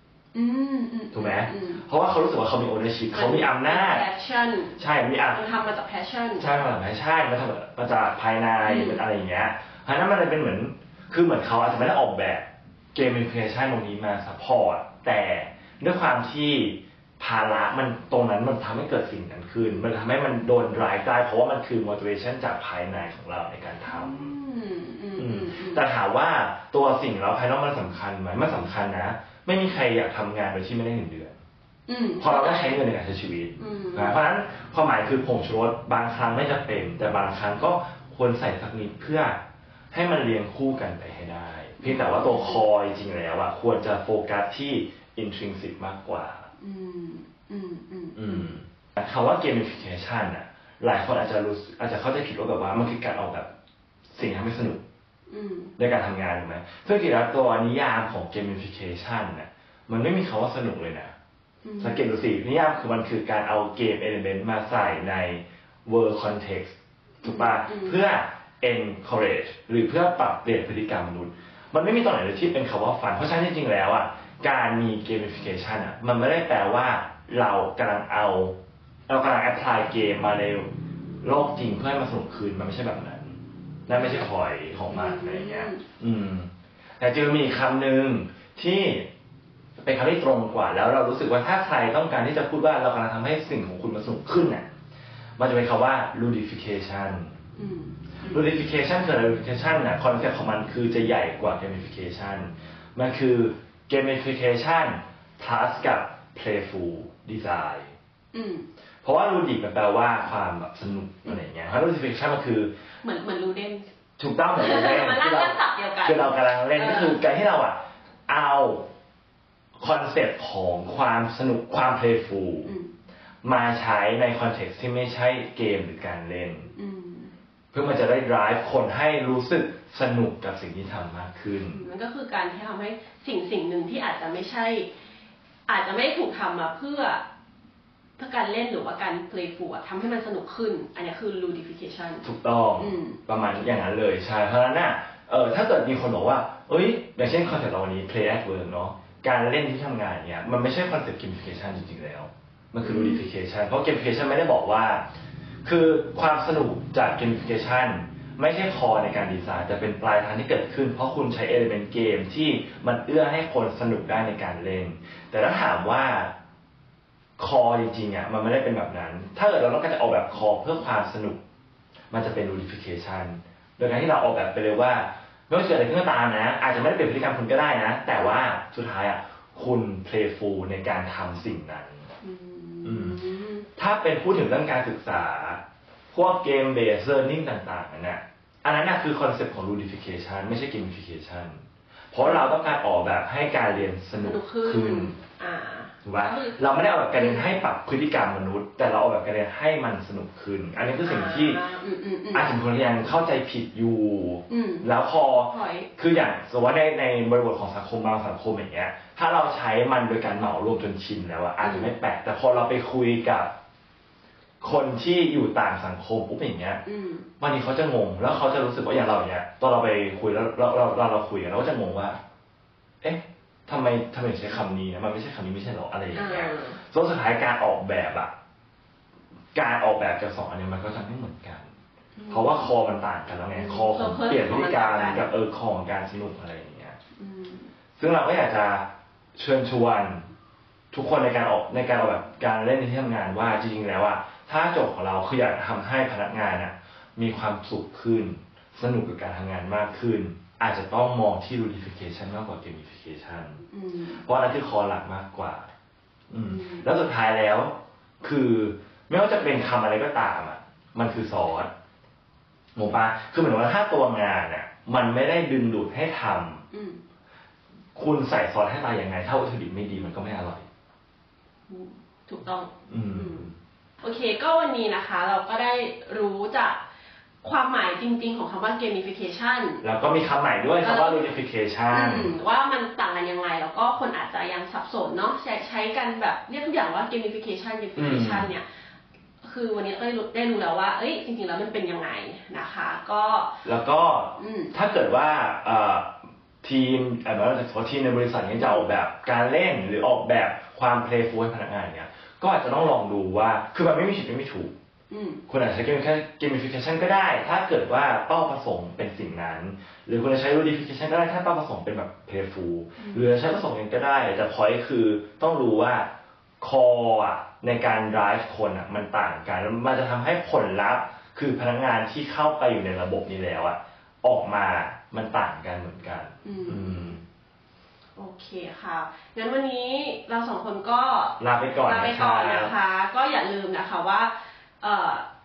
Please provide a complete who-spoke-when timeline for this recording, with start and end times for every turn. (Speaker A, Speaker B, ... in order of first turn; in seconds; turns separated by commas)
Speaker A: 0.3-1.8, Speaker B: 1.1-4.0, Speaker A: 3.1-6.5, Speaker B: 4.8-5.4, Speaker B: 6.4-24.4, Speaker A: 8.6-9.0, Speaker A: 23.9-25.8, Speaker B: 25.2-31.4, Speaker A: 31.9-32.8, Speaker B: 32.2-39.4, Speaker A: 33.6-34.2, Speaker B: 39.9-46.5, Speaker A: 41.8-42.6, Speaker A: 46.6-48.5, Speaker B: 48.2-53.5, Speaker B: 54.1-54.8, Speaker A: 55.3-55.7, Speaker B: 55.8-61.1, Speaker A: 61.6-62.1, Speaker B: 61.8-78.6, Speaker A: 67.2-68.0, Speaker B: 79.1-80.7, Speaker B: 81.2-86.5, Speaker A: 83.9-84.3, Speaker A: 84.9-85.8, Speaker B: 87.0-89.1, Speaker B: 89.8-94.7, Speaker B: 95.4-97.3, Speaker A: 97.5-98.5, Speaker B: 98.3-107.9, Speaker A: 108.3-108.7, Speaker B: 109.0-112.7, Speaker A: 113.0-113.9, Speaker B: 114.2-118.9, Speaker A: 114.5-117.2, Speaker B: 119.8-122.7, Speaker A: 122.7-122.9, Speaker B: 123.4-126.7, Speaker A: 126.8-127.3, Speaker B: 127.7-131.8, Speaker A: 131.7-134.9, Speaker A: 135.7-137.2, Speaker A: 138.2-142.2, Speaker B: 142.2-155.1, Speaker A: 142.8-143.6, Speaker A: 152.8-153.3, Speaker B: 155.6-166.3, Speaker B: 167.4-171.4, Speaker B: 172.1-182.1, Speaker A: 182.2-183.7, Speaker B: 182.8-183.2, Speaker B: 183.8-185.6, Speaker B: 186.1-195.2, Speaker A: 192.2-192.5, Speaker A: 194.2-196.6, Speaker B: 196.0-201.6, Speaker A: 197.2-197.5, Speaker A: 201.0-202.5, Speaker B: 202.3-213.5, Speaker A: 204.5-205.9, Speaker A: 211.6-211.9, Speaker B: 214.6-216.8, Speaker A: 216.9-217.3, Speaker B: 217.4-222.2, Speaker B: 223.0-228.3, Speaker A: 226.1-226.8, Speaker B: 229.5-231.7, Speaker A: 232.2-232.7, Speaker B: 232.3-237.0, Speaker A: 233.5-235.3, Speaker A: 237.2-237.7, Speaker B: 238.0-240.2, Speaker B: 240.9-253.6, Speaker A: 253.7-254.2, Speaker B: 254.2-255.7, Speaker B: 256.3-261.7, Speaker A: 256.5-256.9, Speaker B: 262.8-266.6, Speaker A: 266.7-267.0, Speaker B: 267.9-270.6, Speaker A: 271.7-273.5, Speaker B: 272.9-273.6, Speaker A: 274.0-276.8, Speaker A: 277.4-279.8, Speaker B: 279.8-282.4, Speaker A: 280.8-281.3, Speaker A: 281.9-288.6, Speaker B: 288.0-288.5, Speaker A: 289.4-293.6, Speaker B: 293.6-304.7, Speaker A: 294.4-294.7, Speaker A: 298.6-298.9, Speaker A: 305.1-305.4, Speaker B: 305.5-316.1, Speaker A: 313.0-313.3, Speaker B: 316.6-327.2, Speaker A: 326.4-327.2, Speaker A: 328.2-335.2, Speaker B: 331.4-332.7